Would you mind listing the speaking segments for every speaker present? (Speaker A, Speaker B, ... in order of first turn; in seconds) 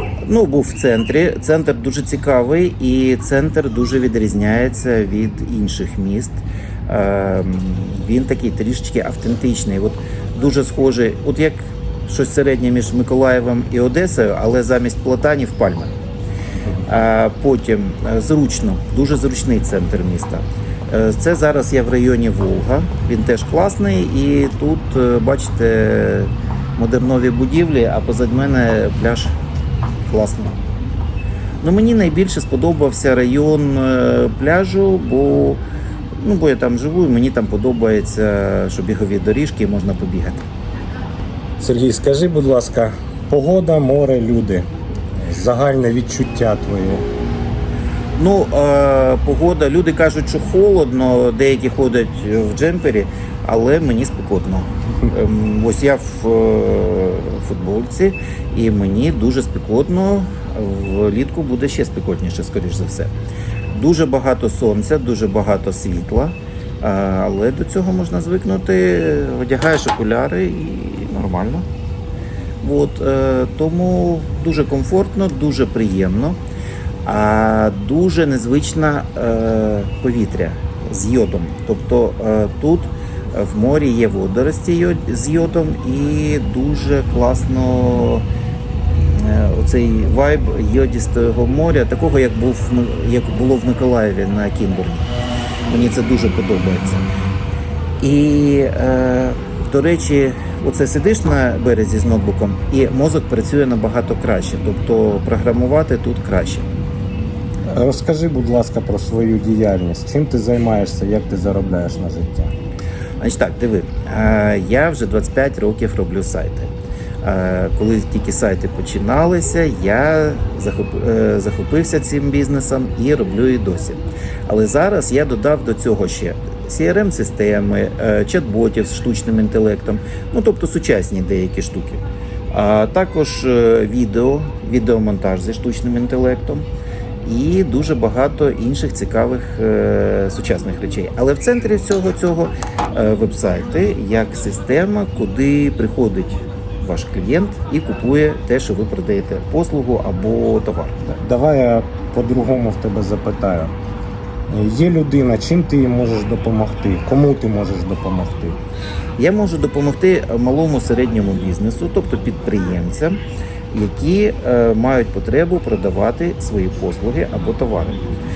Speaker A: 0.3-15.9, 16.9-29.4, 30.1-30.6, 31.6-35.6, 36.2-40.5, 48.2-63.1, 63.7-71.7, 72.6-76.4, 77.0-88.2, 89.1-95.1, 95.7-97.1, 98.0-106.7, 113.2-116.7, 117.2-136.7, 137.2-151.2, 159.2-163.2, 163.7-168.0
Speaker B: 41.6-47.1, 107.6-112.5, 151.2-153.7, 154.5-158.6